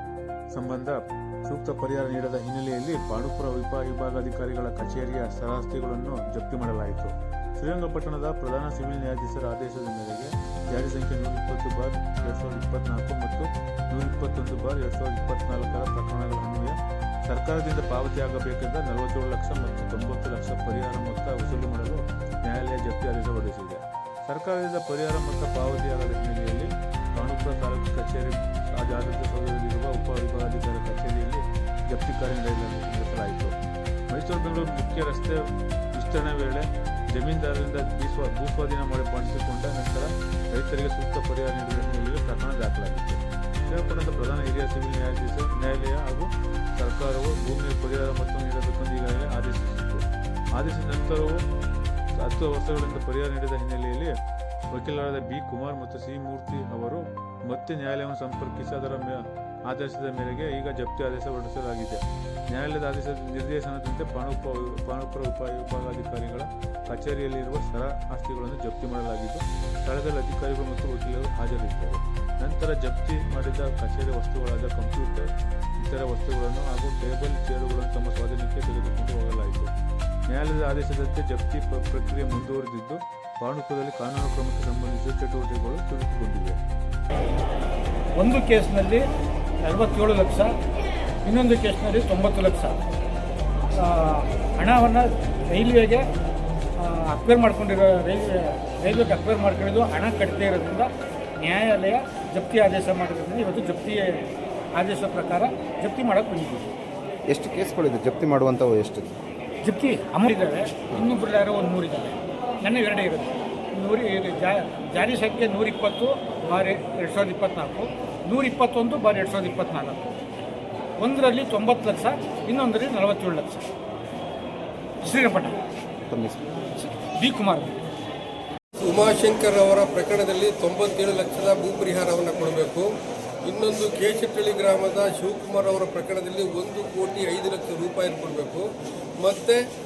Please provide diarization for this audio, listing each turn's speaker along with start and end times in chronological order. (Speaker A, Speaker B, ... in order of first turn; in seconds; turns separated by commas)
Speaker A: 0.5-33.6, Speaker A: 34.1-51.5, Speaker A: 52.1-54.1, Speaker A: 54.7-75.3, Speaker A: 75.8-79.7, Speaker A: 80.3-86.6, Speaker B: 88.2-89.0, Speaker B: 89.6-90.5, Speaker B: 91.2-92.8, Speaker B: 93.7-96.0, Speaker B: 96.8-106.7, Speaker C: 107.3-109.2, Speaker B: 109.6-120.0, Speaker B: 121.0-123.7, Speaker B: 125.0-125.6, Speaker C: 126.0-126.6, Speaker B: 127.2-127.8, Speaker D: 128.8-132.9, Speaker D: 133.4-138.7, Speaker D: 139.2-139.6